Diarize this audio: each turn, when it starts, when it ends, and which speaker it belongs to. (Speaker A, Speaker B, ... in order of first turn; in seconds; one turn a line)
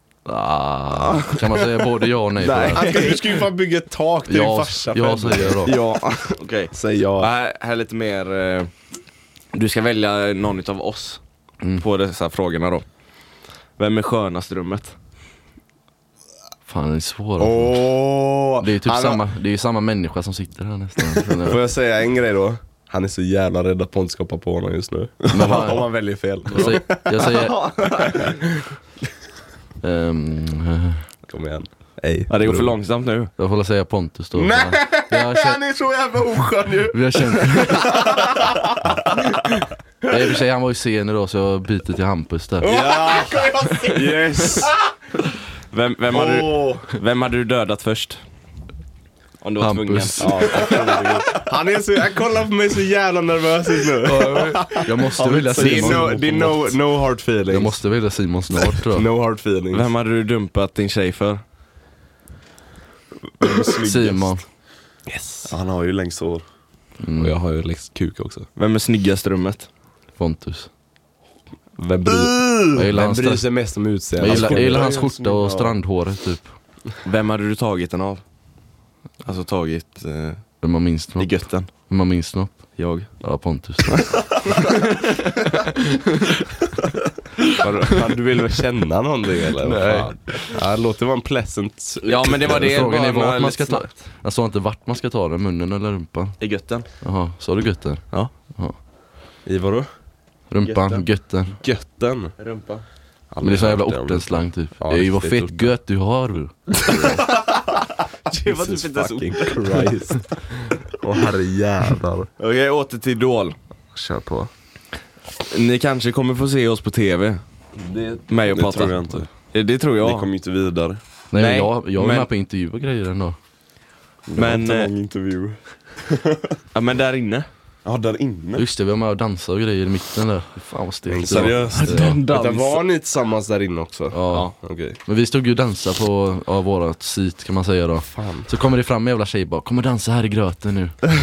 Speaker A: 0.2-2.9
Speaker B: 2.4-3.4
Speaker C: 2.5-5.7
Speaker A: 4.3-5.8
Speaker B: 5.6-8.7
Speaker C: 6.7-7.3
Speaker B: 9.5-11.2
Speaker B: 11.8-12.8
Speaker B: 13.8-14.9
Speaker A: 16.7-17.9
Speaker C: 17.4-19.2
Speaker A: 18.6-21.6
Speaker C: 21.4-27.2
Speaker A: 25.3-27.7
Speaker B: 26.6-28.4
Speaker A: 29.8-31.1
Speaker C: 31.3-32.7
Speaker B: 32.3-33.3
Speaker A: 33.4-35.6
Speaker C: 34.4-39.6
Speaker A: 36.9-37.9
Speaker A: 40.1-42.8
Speaker C: 42.6-44.7
Speaker B: 43.9-44.7
Speaker D: 43.9-44.7
Speaker B: 45.7-48.2
Speaker C: 46.1-46.9
Speaker B: 49.4-51.2
Speaker A: 49.6-50.6
Speaker C: 50.2-57.8
Speaker D: 50.4-51.4
Speaker A: 54.0-56.5
Speaker D: 55.2-56.6
Speaker A: 57.5-59.1
Speaker C: 58.8-59.9
Speaker B: 59.7-61.4
Speaker D: 63.4-64.4
Speaker A: 63.8-64.5
Speaker C: 65.1-65.5
Speaker D: 65.5-66.4
Speaker A: 67.0-67.4
Speaker C: 67.2-68.5
Speaker B: 68.6-69.7
Speaker A: 70.2-70.7
Speaker C: 71.8-74.9
Speaker A: 72.7-73.5
Speaker A: 74.2-76.5
Speaker D: 74.2-75.8
Speaker B: 77.0-78.2
Speaker B: 79.2-80.6
Speaker A: 80.6-84.2
Speaker B: 81.2-81.7
Speaker B: 82.8-83.1
Speaker B: 83.9-85.5
Speaker C: 87.6-92.7
Speaker A: 89.6-90.5
Speaker B: 92.0-93.9
Speaker A: 92.4-96.4
Speaker B: 96.4-96.9
Speaker A: 97.0-98.8
Speaker C: 99.5-99.9
Speaker A: 100.5-101.6
Speaker B: 100.6-101.0
Speaker C: 101.6-102.3
Speaker B: 102.4-102.8
Speaker C: 103.3-104.2
Speaker A: 103.4-107.2
Speaker D: 103.5-103.8
Speaker C: 104.8-105.7
Speaker C: 108.3-112.3
Speaker B: 108.3-109.9
Speaker B: 112.4-113.6
Speaker C: 113.9-114.5
Speaker B: 115.5-117.4
Speaker C: 117.8-118.2
Speaker B: 118.3-120.3
Speaker D: 118.5-119.3
Speaker D: 120.0-121.0
Speaker A: 121.3-123.4
Speaker B: 121.3-122.3
Speaker D: 124.3-126.5
Speaker B: 124.4-124.9
Speaker B: 126.7-127.5
Speaker D: 127.8-128.7
Speaker A: 128.6-132.2
Speaker C: 131.1-135.0
Speaker D: 131.3-131.7
Speaker B: 131.4-132.8
Speaker A: 134.1-134.5
Speaker A: 135.0-141.0
Speaker C: 138.0-138.5